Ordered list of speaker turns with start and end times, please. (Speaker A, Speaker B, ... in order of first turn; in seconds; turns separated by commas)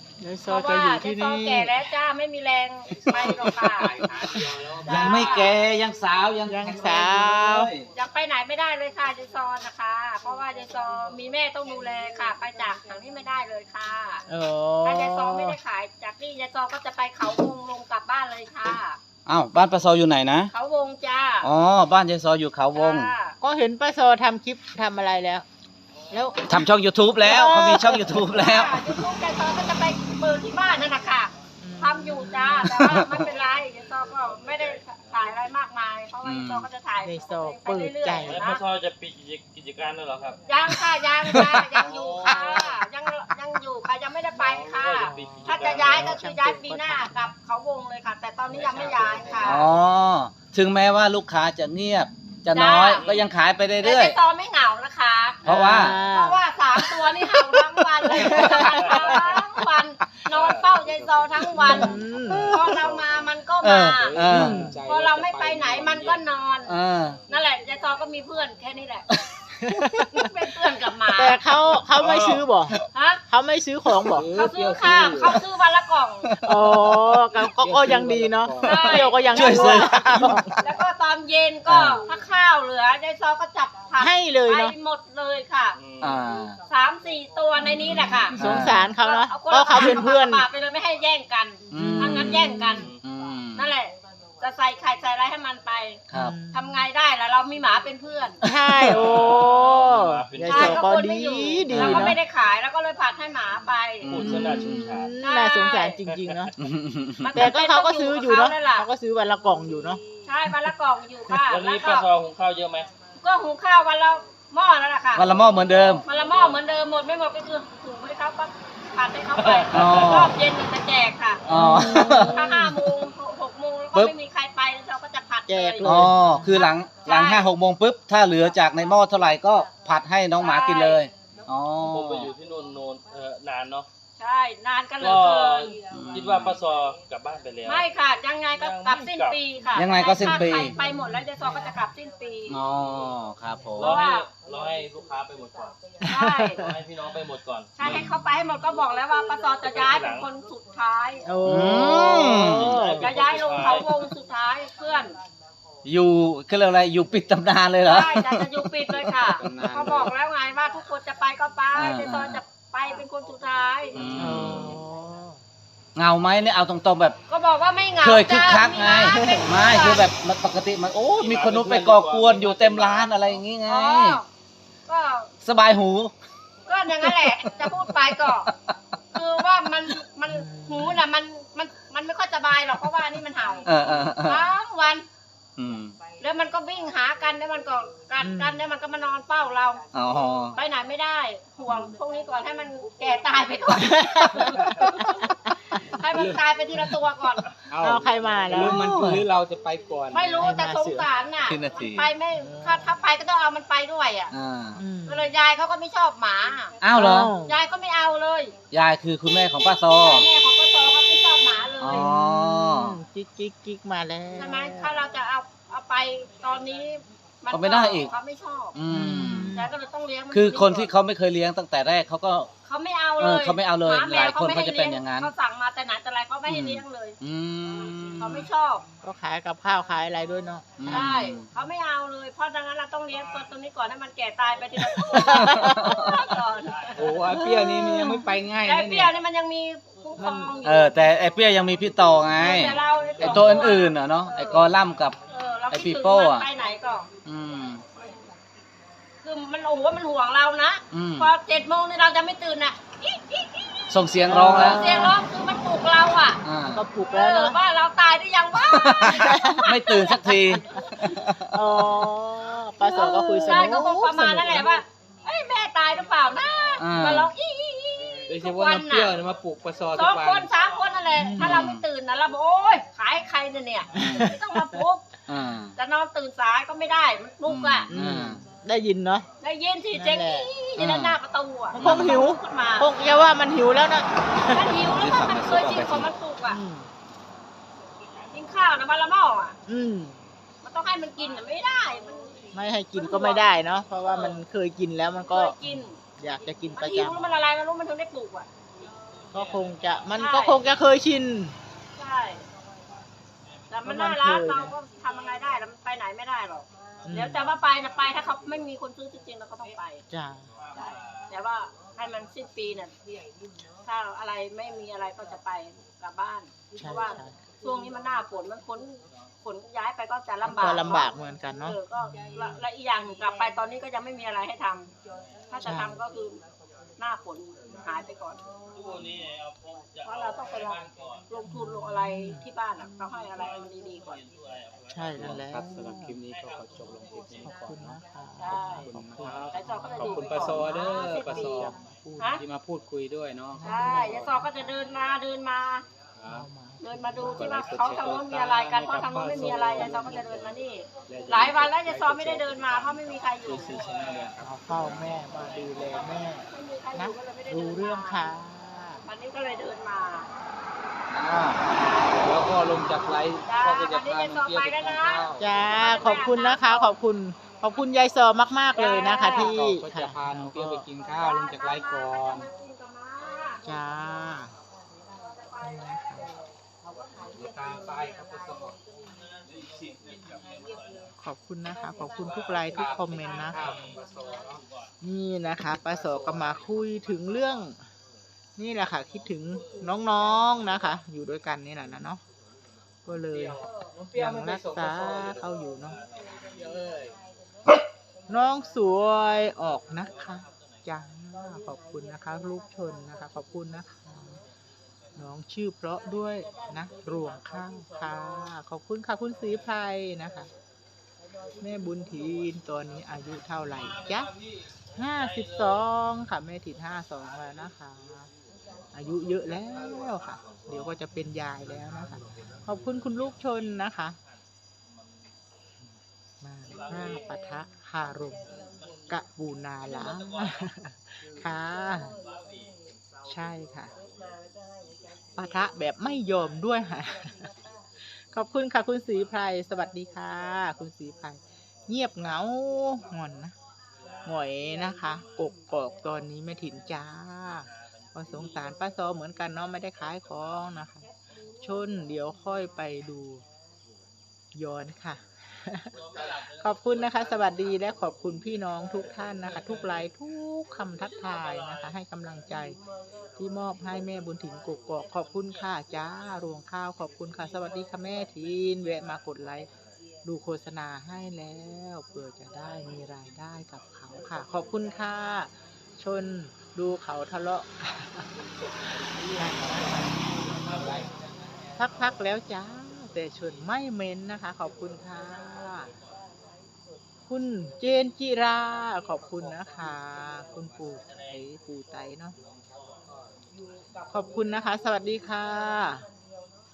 Speaker A: 0.2-1.8, Speaker B: 0.5-4.0, Speaker C: 3.1-7.9, Speaker D: 4.0-4.4, Speaker E: 4.7-5.4, Speaker B: 4.8-5.5, Speaker A: 6.5-7.7, Speaker B: 8.0-14.2, Speaker A: 14.3-15.6, Speaker B: 14.8-19.0, Speaker C: 19.3-20.5, Speaker B: 20.5-21.5, Speaker C: 21.4-23.1, Speaker B: 22.8-23.4, Speaker A: 23.4-25.5, Speaker A: 26.1-26.7, Speaker C: 26.5-28.8, Speaker A: 27.2-28.2, Speaker B: 28.3-38.6, Speaker A: 31.6-32.8, Speaker C: 32.9-33.1, Speaker C: 36.2-36.7, Speaker A: 37.0-38.5, Speaker E: 38.3-40.4, Speaker B: 40.5-49.7, Speaker C: 41.3-41.7, Speaker E: 41.8-42.8, Speaker E: 44.4-46.2, Speaker A: 45.0-47.3, Speaker E: 48.5-49.7, Speaker C: 49.4-54.2, Speaker B: 52.5-53.2, Speaker E: 52.9-53.3, Speaker B: 53.8-64.1, Speaker C: 55.5-56.0, Speaker A: 55.5-56.4, Speaker A: 58.1-59.3, Speaker E: 58.9-59.3, Speaker E: 60.3-60.7, Speaker D: 60.7-63.3, Speaker A: 61.6-62.7, Speaker C: 63.6-64.6, Speaker D: 63.9-66.2, Speaker A: 64.3-64.8, Speaker B: 64.8-66.8, Speaker C: 66.7-67.2, Speaker B: 67.3-69.1, Speaker A: 69.6-70.2, Speaker B: 70.1-71.4, Speaker A: 71.1-72.8, Speaker C: 72.0-72.8, Speaker B: 72.9-73.2, Speaker A: 73.3-74.3, Speaker D: 74.1-75.4, Speaker B: 74.3-76.3, Speaker C: 76.3-77.0, Speaker A: 76.4-80.5, Speaker D: 77.4-79.2, Speaker B: 78.6-79.9, Speaker C: 79.3-80.4, Speaker B: 80.6-85.8, Speaker C: 81.7-82.0, Speaker A: 84.0-84.8, Speaker E: 85.8-86.2, Speaker C: 86.0-86.6, Speaker B: 86.7-88.4, Speaker A: 87.6-90.5, Speaker C: 87.9-88.9, Speaker B: 89.0-92.9, Speaker C: 91.7-93.7, Speaker A: 91.7-92.8, Speaker B: 93.5-98.4, Speaker A: 96.1-96.9, Speaker A: 98.4-102.2, Speaker E: 98.9-100.8, Speaker B: 100.5-104.1, Speaker C: 101.7-102.2, Speaker C: 104.0-105.0, Speaker E: 104.1-105.1, Speaker A: 104.2-106.5, Speaker B: 105.2-106.0, Speaker E: 106.1-106.5, Speaker C: 106.6-107.5, Speaker B: 107.2-108.9, Speaker A: 107.3-110.6, Speaker B: 110.3-112.1, Speaker E: 111.5-112.9, Speaker B: 113.2-115.3, Speaker C: 115.2-116.0, Speaker B: 116.0-121.4, Speaker E: 116.1-116.6, Speaker E: 119.4-120.0, Speaker C: 119.7-120.3, Speaker C: 121.5-122.7, Speaker A: 121.5-122.8, Speaker B: 122.0-127.5, Speaker A: 125.5-126.6, Speaker C: 125.8-132.3, Speaker B: 130.4-131.0, Speaker E: 131.8-133.9, Speaker B: 134.2-135.8, Speaker E: 135.0-137.8, Speaker C: 135.9-136.6, Speaker B: 137.7-142.6, Speaker E: 138.6-139.4, Speaker C: 139.8-140.8, Speaker A: 140.8-141.9, Speaker C: 142.5-144.0, Speaker E: 143.8-145.8, Speaker B: 143.8-144.3, Speaker A: 146.1-146.5, Speaker B: 146.1-146.6, Speaker E: 146.5-147.7, Speaker B: 147.8-151.3, Speaker C: 147.8-148.2, Speaker E: 149.7-150.3, Speaker A: 151.2-153.1, Speaker C: 151.4-152.8, Speaker E: 152.7-153.9, Speaker B: 153.0-155.1, Speaker C: 155.8-159.1, Speaker B: 157.9-164.3, Speaker D: 159.3-160.1, Speaker C: 161.8-162.4, Speaker C: 163.9-164.8, Speaker A: 164.2-165.4, Speaker C: 166.0-167.2, Speaker B: 167.3-170.1, Speaker C: 168.0-174.2, Speaker E: 171.2-173.1, Speaker B: 173.7-174.2, Speaker B: 174.9-175.3, Speaker C: 175.4-176.1, Speaker B: 176.7-178.5, Speaker C: 177.0-177.9, Speaker B: 179.1-185.1, Speaker A: 180.3-181.0, Speaker C: 183.7-184.5, Speaker C: 185.6-186.0, Speaker B: 186.2-189.8, Speaker A: 188.2-188.7, Speaker C: 189.9-190.6, Speaker B: 190.6-197.4, Speaker A: 193.8-195.0, Speaker D: 196.1-196.4, Speaker D: 197.7-200.5, Speaker A: 197.8-199.3, Speaker B: 200.1-204.3, Speaker A: 200.4-201.1, Speaker C: 201.4-202.1, Speaker A: 202.4-202.9, Speaker C: 204.3-204.8, Speaker A: 204.8-205.3, Speaker B: 205.1-206.7, Speaker C: 206.8-207.3, Speaker A: 206.9-207.6, Speaker B: 207.4-208.5, Speaker C: 208.7-210.3, Speaker B: 210.0-212.1, Speaker C: 211.8-212.9, Speaker A: 211.9-215.0, Speaker B: 214.4-218.8, Speaker C: 217.5-218.1, Speaker C: 218.8-219.5, Speaker A: 218.9-219.7, Speaker B: 219.5-220.9, Speaker C: 220.3-222.5, Speaker B: 222.7-227.2, Speaker C: 223.2-225.3, Speaker C: 226.5-228.5, Speaker B: 228.2-228.8, Speaker A: 229.0-231.1, Speaker C: 230.8-231.5, Speaker B: 230.9-237.0, Speaker C: 235.2-236.2, Speaker A: 235.3-235.7, Speaker D: 236.9-239.1, Speaker A: 237.3-238.3, Speaker B: 238.7-240.9, Speaker A: 240.2-240.5, Speaker C: 240.6-245.2, Speaker B: 242.3-244.7, Speaker D: 243.2-243.5, Speaker B: 245.3-247.1, Speaker C: 245.7-246.5, Speaker C: 247.2-247.8, Speaker B: 249.2-256.4, Speaker C: 250.9-251.3, Speaker C: 253.9-255.0, Speaker A: 254.3-255.2, Speaker C: 256.4-256.8, Speaker A: 256.7-257.6, Speaker B: 257.1-260.6, Speaker C: 258.7-261.5, Speaker A: 259.1-259.7, Speaker A: 261.5-264.7, Speaker C: 262.9-263.7, Speaker B: 263.0-269.2, Speaker C: 266.8-267.3, Speaker D: 268.3-270.5, Speaker B: 269.9-275.1, Speaker A: 271.2-271.7, Speaker C: 271.4-271.8, Speaker C: 273.9-274.4, Speaker A: 274.0-274.8, Speaker C: 275.3-275.7, Speaker B: 275.8-277.9, Speaker C: 277.5-278.4, Speaker A: 277.9-279.3, Speaker B: 279.4-283.1, Speaker A: 279.9-280.5, Speaker C: 280.8-281.2, Speaker A: 281.8-284.8, Speaker C: 281.8-282.2, Speaker B: 284.5-286.6, Speaker C: 284.8-286.1, Speaker A: 286.5-286.9, Speaker B: 288.3-289.6, Speaker A: 289.7-290.2, Speaker B: 290.6-292.3, Speaker A: 292.5-297.2, Speaker B: 292.9-293.5, Speaker B: 294.1-294.4, Speaker B: 295.3-296.0, Speaker B: 296.8-298.5, Speaker A: 299.3-301.6, Speaker B: 300.2-300.6, Speaker B: 302.0-302.4, Speaker B: 303.7-310.0, Speaker A: 303.9-304.7, Speaker A: 307.1-307.4, Speaker A: 310.1-310.5, Speaker B: 310.8-312.9, Speaker B: 313.9-321.1, Speaker A: 316.8-317.4, Speaker A: 320.4-322.6, Speaker B: 321.6-324.9, Speaker B: 325.5-326.4, Speaker A: 325.6-326.0, Speaker B: 327.0-328.4, Speaker B: 330.0-334.2, Speaker A: 331.5-332.5, Speaker A: 334.9-336.2, Speaker D: 335.2-338.0, Speaker A: 337.4-342.4, Speaker B: 338.4-338.9, Speaker D: 338.5-341.7, Speaker B: 339.5-342.4, Speaker D: 342.4-344.3, Speaker A: 343.5-344.8, Speaker B: 343.6-345.8, Speaker D: 346.2-346.5, Speaker A: 346.3-347.6, Speaker B: 346.8-353.8, Speaker D: 347.2-350.6, Speaker D: 351.1-354.5, Speaker A: 354.4-359.0, Speaker B: 356.5-358.3, Speaker B: 359.1-360.3, Speaker C: 361.1-361.6, Speaker D: 362.2-365.4, Speaker B: 363.4-366.9, Speaker A: 365.4-370.9, Speaker B: 368.8-369.5, Speaker D: 369.2-372.5, Speaker B: 371.1-373.6, Speaker A: 373.6-374.5, Speaker A: 375.6-376.3, Speaker D: 377.3-378.8, Speaker A: 381.2-383.8, Speaker D: 382.7-384.6, Speaker A: 385.0-387.8, Speaker D: 386.1-386.5, Speaker A: 388.6-392.2, Speaker A: 393.1-393.6, Speaker D: 394.0-395.4, Speaker A: 394.1-396.0, Speaker D: 396.6-397.1, Speaker A: 398.3-404.4, Speaker A: 405.2-410.5, Speaker A: 411.6-414.3, Speaker A: 414.9-418.3, Speaker A: 418.9-424.2, Speaker A: 426.4-428.5, Speaker A: 429.1-432.2, Speaker A: 433.3-433.9, Speaker A: 435.4-437.5, Speaker A: 438.2-443.5, Speaker A: 444.3-451.1, Speaker A: 451.6-453.4, Speaker A: 454.6-455.9, Speaker A: 456.6-462.8, Speaker A: 463.4-469.7, Speaker A: 470.2-478.3, Speaker A: 478.8-481.1, Speaker A: 481.8-485.9, Speaker A: 487.3-492.4, Speaker A: 494.1-496.1